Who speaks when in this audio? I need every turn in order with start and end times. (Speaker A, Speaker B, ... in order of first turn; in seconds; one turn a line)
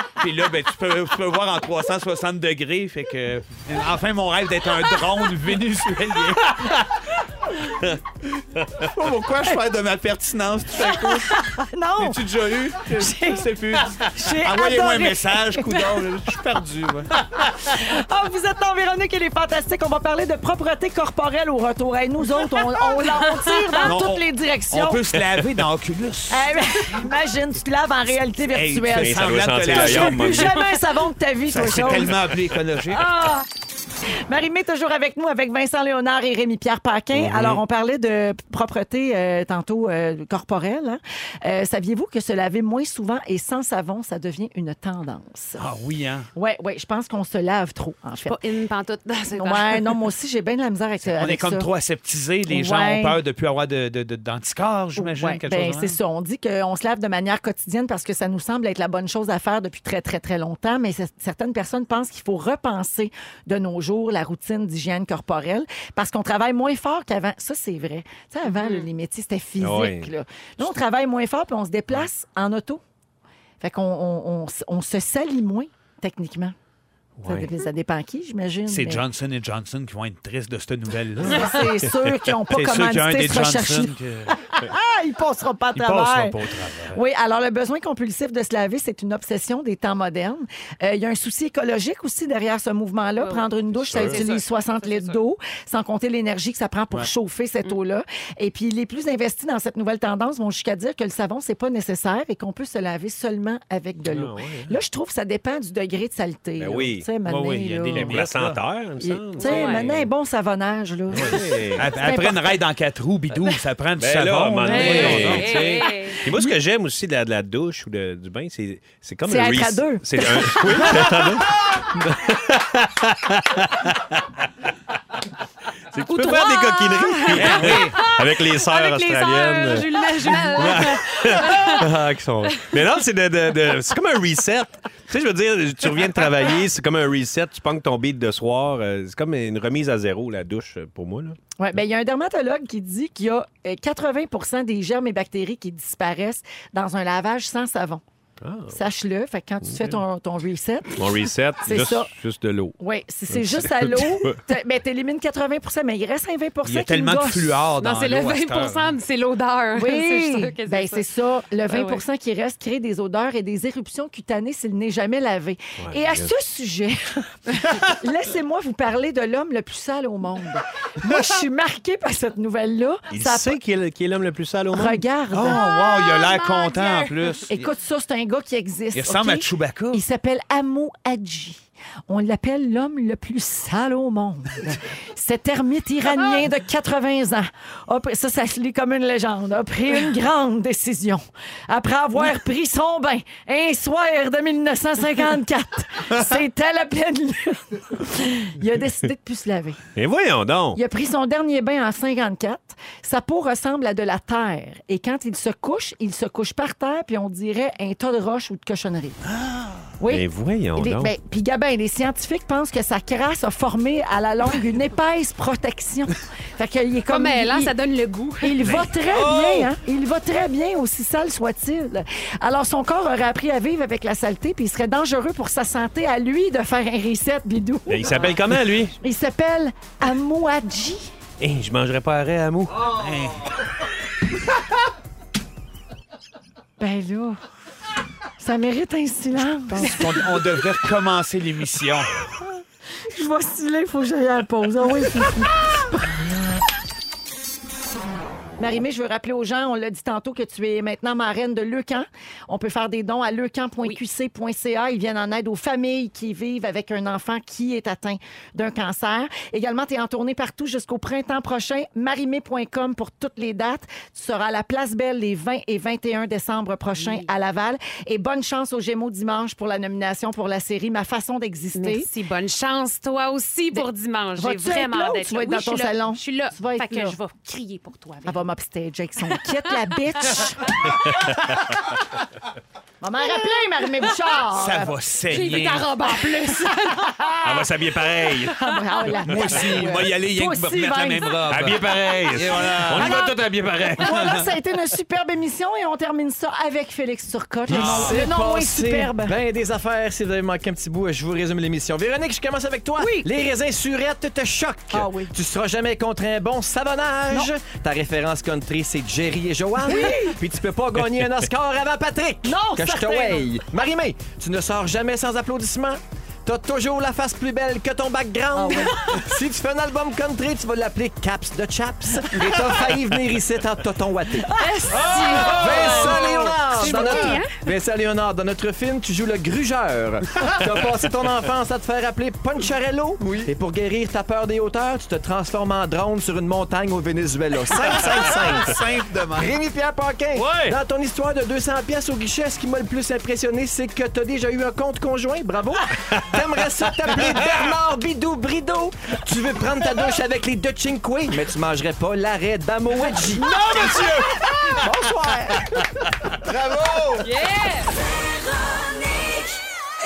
Speaker A: 0.2-6.8
Speaker B: 8.6-8.8
Speaker A: 8.8-17.1
Speaker C: 10.9-12.2
Speaker C: 13.0-16.0
Speaker C: 17.4-25.1
Speaker D: 23.5-23.8
Speaker A: 23.8-27.1
Speaker C: 26.3-32.2
Speaker A: 28.5-30.8
Speaker B: 28.9-30.6
Speaker A: 31.5-33.1
Speaker C: 32.9-33.5
Speaker C: 34.2-45.6
Speaker B: 37.1-37.6
Speaker A: 45.6-46.3
Speaker C: 46.3-48.4
Speaker D: 48.2-50.1
Speaker C: 49.3-51.7
Speaker A: 51.0-56.0
Speaker C: 52.5-53.2
Speaker C: 55.0-72.8
Speaker D: 68.4-68.9
Speaker B: 69.6-70.7
Speaker C: 73.6-76.5
Speaker B: 77.2-77.5
Speaker C: 77.2-79.0
Speaker A: 78.7-81.8
Speaker C: 81.2-108.2
Speaker A: 82.5-84.3
Speaker A: 85.7-87.0
Speaker D: 93.2-95.2
Speaker B: 93.9-94.3
Speaker B: 104.0-104.8
Speaker B: 106.6-107.1
Speaker A: 107.2-108.6
Speaker B: 107.9-110.1
Speaker C: 109.0-112.6
Speaker D: 109.4-109.9
Speaker B: 111.1-111.9
Speaker A: 111.1-115.8
Speaker B: 114.0-124.5
Speaker D: 114.7-116.2
Speaker C: 114.8-115.4
Speaker C: 116.2-116.5
Speaker C: 119.2-121.3
Speaker B: 125.9-141.4
Speaker D: 126.1-131.8
Speaker A: 127.3-128.0
Speaker C: 141.6-148.0
Speaker B: 148.4-148.8
Speaker C: 148.7-152.1
Speaker B: 149.6-150.0
Speaker B: 151.0-152.8
Speaker C: 152.8-157.6
Speaker B: 153.3-154.5
Speaker A: 156.6-158.9
Speaker D: 157.8-161.0
Speaker C: 159.7-173.6
Speaker D: 161.7-162.0
Speaker B: 165.8-166.3
Speaker B: 173.1-175.0
Speaker C: 174.7-175.6
Speaker A: 175.3-177.7
Speaker D: 175.5-177.4
Speaker C: 177.5-199.8
Speaker A: 178.9-180.0
Speaker B: 199.9-200.8
Speaker C: 200.7-209.2
Speaker A: 209.3-209.8
Speaker C: 210.0-217.7
Speaker B: 210.1-211.1
Speaker D: 217.1-218.6
Speaker C: 218.4-228.3
Speaker A: 218.6-219.6
Speaker B: 219.1-219.7
Speaker B: 227.9-228.9
Speaker C: 229.0-231.1
Speaker B: 231.4-233.0
Speaker A: 232.9-233.6
Speaker C: 236.8-237.4
Speaker C: 238.4-240.4
Speaker A: 239.7-242.1
Speaker C: 242.4-246.7
Speaker C: 248.6-272.1
Speaker D: 267.0-267.3
Speaker D: 271.7-278.4
Speaker C: 274.4-277.2
Speaker C: 278.2-280.9
Speaker D: 280.2-281.0
Speaker B: 281.0-281.8
Speaker C: 283.0-284.9
Speaker A: 284.5-285.9
Speaker D: 285.3-287.3
Speaker C: 286.1-287.6
Speaker B: 287.4-288.6
Speaker C: 288.4-291.4
Speaker A: 289.3-293.2
Speaker B: 291.5-294.5
Speaker C: 292.5-293.3
Speaker C: 294.0-299.4
Speaker A: 297.7-298.2
Speaker E: 297.7-324.6
Speaker C: 303.0-303.3
Speaker C: 304.9-305.3
Speaker C: 309.8-310.4
Speaker C: 312.4-313.5
Speaker C: 318.5-319.1
Speaker D: 324.6-325.7
Speaker C: 324.8-325.5
Speaker E: 325.4-338.8
Speaker A: 325.6-326.3
Speaker D: 326.8-327.5
Speaker A: 337.8-339.5
Speaker E: 339.3-357.3
Speaker B: 340.4-340.8
Speaker B: 353.7-354.2
Speaker D: 357.2-357.9